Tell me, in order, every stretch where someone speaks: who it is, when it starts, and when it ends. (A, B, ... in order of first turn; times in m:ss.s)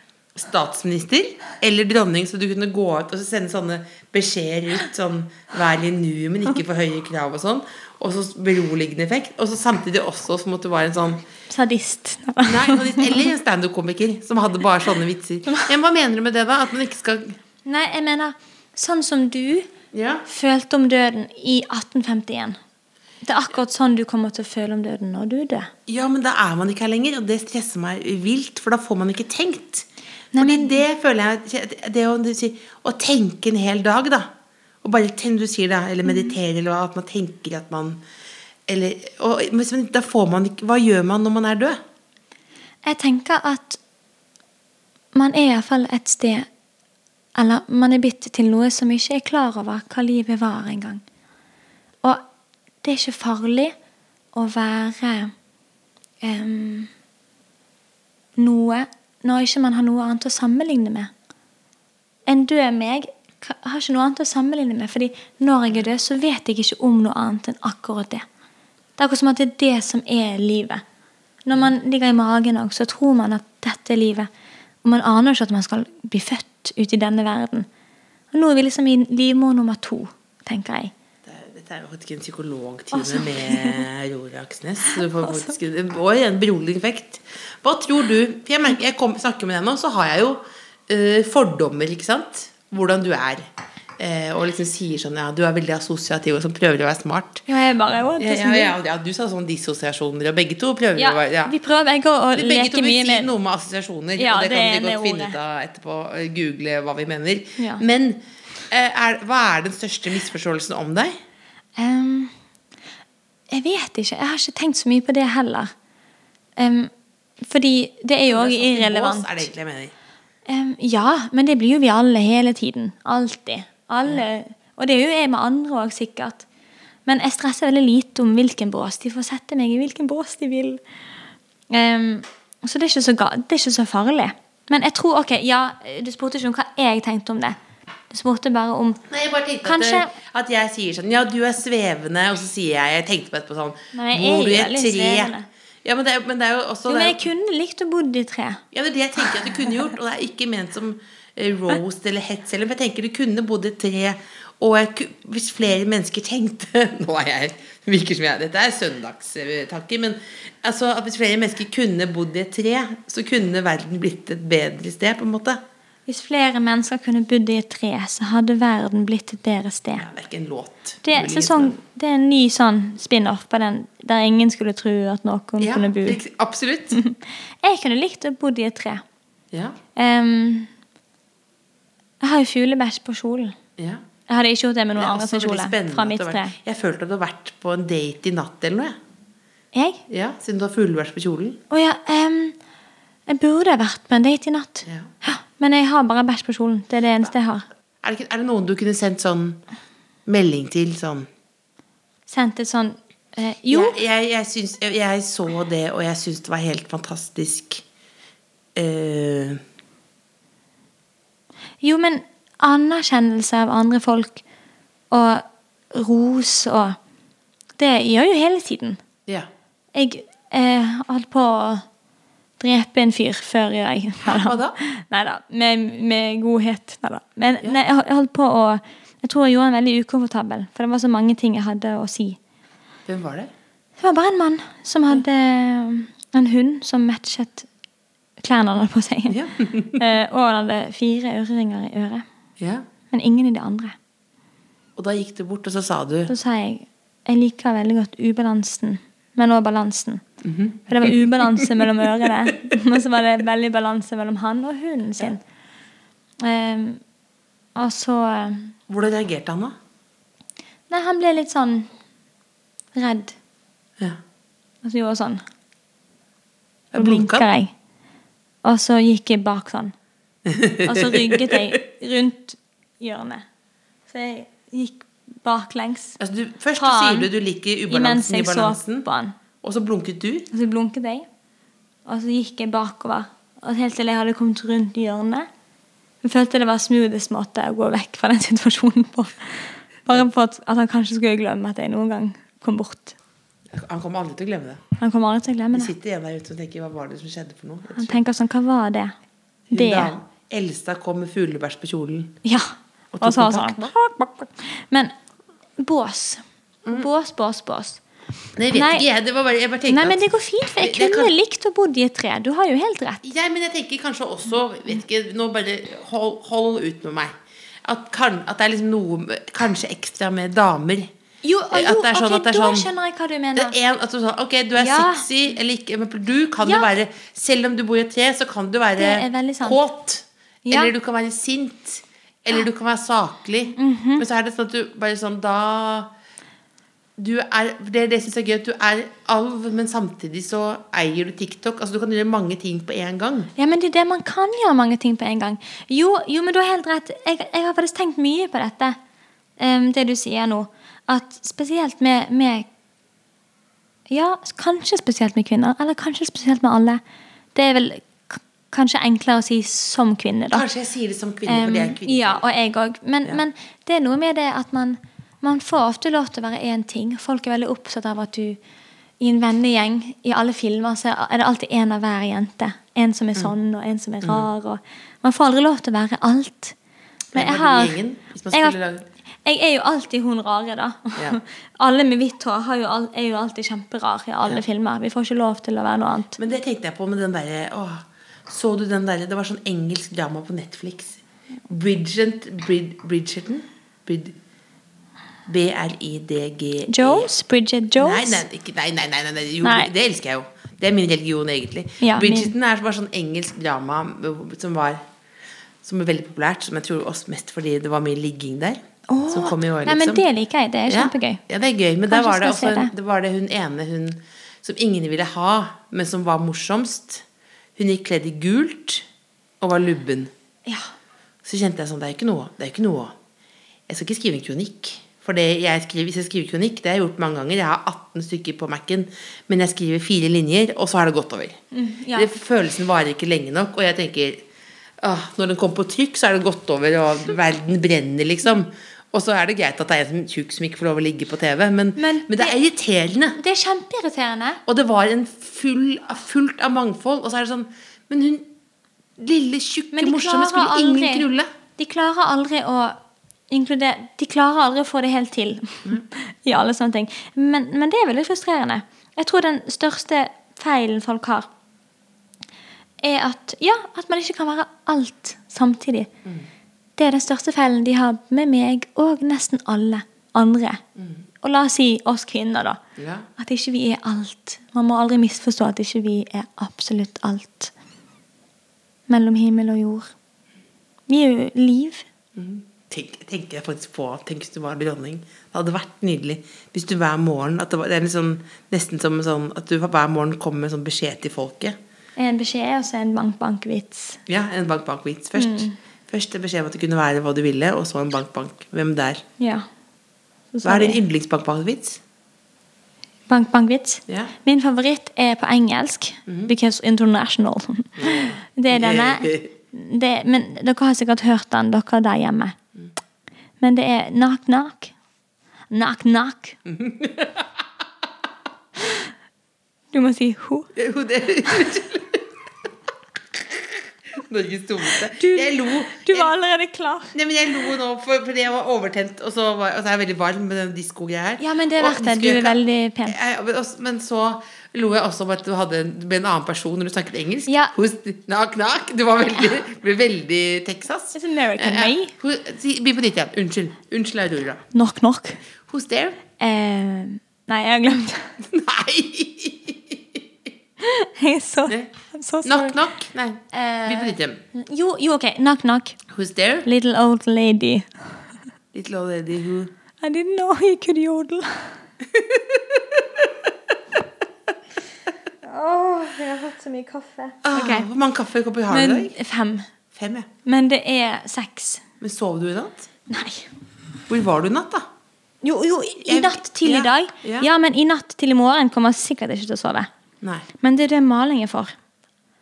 0:00.4-0:11.2 A
0:11.5-0:13.3 B
0:12.4-0:17.4 A
0:17.6-0:19.7 B
0:19.9-0:20.2 A
0:20.3-0:22.6 B
0:23.2-0:25.7 B
0:25.9-0:34.3 A
0:30.3-0:30.8 B
0:34.8-0:38.0 A
0:36.0-0:36.4 B
0:38.7-0:41.8 A
0:42.8-0:43.8 B
0:45.2-0:46.5 B
0:47.4-0:51.0 B
0:52.8-0:53.7 B
0:54.3-0:55.3 B
0:56.2-0:56.9 B
0:58.4-1:01.1 B
1:02.3-1:08.2 B
1:09.0-1:10.8 B
1:11.4-1:14.3 B
1:14.8-1:17.7 B
1:18.3-1:20.9 B
1:21.2-1:33.5 A
1:22.9-1:23.9 B
1:24.9-1:25.6 B
1:34.0-1:37.4 A
1:37.5-1:38.8 B
1:38.2-1:41.5 A
1:41.0-1:43.3 B
1:42.4-1:51.1 A
1:44.2-1:45.4 B
1:47.6-1:47.8 B
1:51.8-1:52.3 B
1:53.5-1:55.7 B
1:56.6-1:56.9 B
1:57.4-1:59.5 B
1:58.3-1:59.9 A
2:00.5-2:06.5 B
2:07.1-2:10.8 B
2:11.7-2:17.6 B
2:18.1-2:19.0 B
2:19.1-2:27.2 A
2:19.6-2:20.1 B
2:23.9-2:25.5 B
2:26.9-2:28.6 B
2:28.7-2:45.6 A
2:46.1-2:50.1 B
2:50.0-2:51.8 A
2:51.0-2:56.2 B
2:55.6-2:57.0 A
2:56.9-2:59.0 B
2:59.5-2:59.8 A
3:00.0-3:00.7 B
3:02.2-3:03.6 B
3:03.8-3:04.0 A
3:04.3-3:06.5 B
3:05.0-3:09.0 A
3:09.7-3:10.0 B
3:10.1-3:11.6 A
3:11.7-3:12.6 B
3:13.3-3:17.7 B
3:18.0-3:19.6 A
3:20.3-3:21.3 A
3:22.3-3:24.0 B
3:23.7-3:27.8 A
3:28.8-3:29.6 A
3:31.8-3:34.4 B
3:35.1-3:37.0 B
3:37.8-3:39.0 B
3:39.9-3:41.8 B
3:42.6-3:52.4 B
3:44.2-3:44.8 A
3:53.1-3:53.5 A
3:54.0-3:57.7 B
3:58.4-4:02.2 B
3:59.3-4:00.0 A
4:02.6-4:02.8 A
4:03.1-4:04.0 B
4:05.0-4:06.3 A
4:06.3-4:10.2 B
4:10.4-4:11.8 A
4:10.9-4:15.4 B
4:16.4-4:17.0 B
4:17.8-4:18.7 B
4:18.9-4:19.8 A
4:20.9-4:21.9 B
4:22.9-4:23.4 B
4:24.8-4:25.4 B
4:26.9-4:27.5 A
4:27.0-4:27.7 B
4:28.6-4:29.9 B
4:30.5-4:31.7 A
4:30.8-4:33.5 B
4:34.1-4:36.2 B
4:36.2-4:39.1 A
4:36.8-4:37.3 B
4:37.9-4:39.4 B
4:39.6-4:40.5 A
4:40.5-4:41.3 B
4:42.1-4:45.5 B
4:46.2-4:53.2 B
4:53.7-4:54.8 A
4:55.0-4:55.9 B
4:55.7-4:58.2 A
4:58.0-4:59.2 B
4:59.7-5:02.4 A
4:59.7-5:00.1 B
5:02.4-5:05.1 B
5:03.1-5:04.0 A
5:05.8-5:08.0 B
5:08.6-5:10.2 A
5:08.7-5:09.1 B
5:09.9-5:13.2 B
5:10.8-5:11.3 A
5:13.2-5:21.1 A
5:21.4-5:23.8 B
5:21.7-5:22.9 A
5:23.6-5:36.1 A
5:24.8-5:25.3 B
5:26.6-5:26.9 B
5:29.0-5:29.8 B
5:30.6-5:30.9 B
5:33.8-5:34.2 B
5:37.2-5:43.5 A
5:43.6-5:49.0 B
5:49.6-5:52.7 B
5:54.1-5:57.0 B
5:57.6-6:00.7 B
6:00.5-6:02.4 A
6:01.5-6:08.6 B
6:09.2-6:16.8 B
6:14.2-6:14.5 A
6:17.3-6:19.0 A
6:17.3-6:18.0 B
6:18.5-6:18.8 B
6:19.4-6:26.4 B
6:26.4-6:34.4 A
6:35.5-6:37.3 A
6:36.9-6:38.4 B
6:38.0-6:45.0 A
6:39.6-6:39.9 B
6:42.0-6:42.5 B
6:45.8-6:50.2 A
6:49.1-6:51.4 B
6:50.9-6:57.2 A
6:52.1-6:52.9 B
6:57.8-6:59.1 A
6:59.6-7:00.3 A
7:01.4-7:03.2 A
7:03.9-7:11.6 A
7:11.7-7:12.3 B
7:12.1-7:14.4 A
7:15.0-7:23.4 A
7:22.0-7:22.6 B
7:23.4-7:24.6 B
7:24.7-7:28.5 A
7:29.2-7:31.5 A
7:29.9-7:41.5 B
7:43.0-7:46.1 B
7:47.0-7:50.8 B
7:51.0-7:51.2 A
7:51.4-7:52.8 B
7:53.0-7:53.3 A
7:53.4-7:57.7 B
7:59.1-8:00.1 B
8:01.1-8:02.0 B
8:02.4-8:11.8 A
8:12.2-8:14.2 B
8:14.3-8:19.2 A
8:15.4-8:15.8 B
8:19.4-8:19.7 B
8:20.5-8:21.0 B
8:20.6-8:22.0 A
8:23.3-8:32.6 B
8:24.1-8:24.4 A
8:26.3-8:26.5 A
8:28.0-8:29.5 A
8:33.6-8:34.9 B
8:35.7-8:36.6 B
8:36.6-8:37.6 A
8:39.9-8:40.7 B
8:40.8-8:42.2 A
8:43.3-8:46.3 A
8:45.2-8:47.2 B
8:47.1-9:04.6 A
8:51.4-8:53.2 B
8:57.5-8:57.7 B
9:01.1-9:02.1 B
9:04.7-9:05.4 B
9:05.6-9:06.2 A
9:06.4-9:08.4 B
9:08.4-9:10.5 A
9:10.8-9:12.8 B
9:12.4-9:14.4 A
9:13.5-9:16.0 B
9:16.1-9:16.7 A
9:16.6-9:17.9 B
9:18.7-9:19.7 A
9:20.0-9:21.8 B
9:22.1-9:23.2 A
9:25.4-9:27.9 B
9:27.4-9:29.2 A
9:28.7-9:29.7 B
9:29.9-9:30.3 A
9:30.4-9:31.8 B
9:32.0-9:32.9 A
9:33.1-9:33.5 B
9:34.1-9:34.9 A
9:35.4-9:39.9 B
9:36.0-9:37.5 A
9:40.2-9:40.5 A
9:40.6-9:41.8 B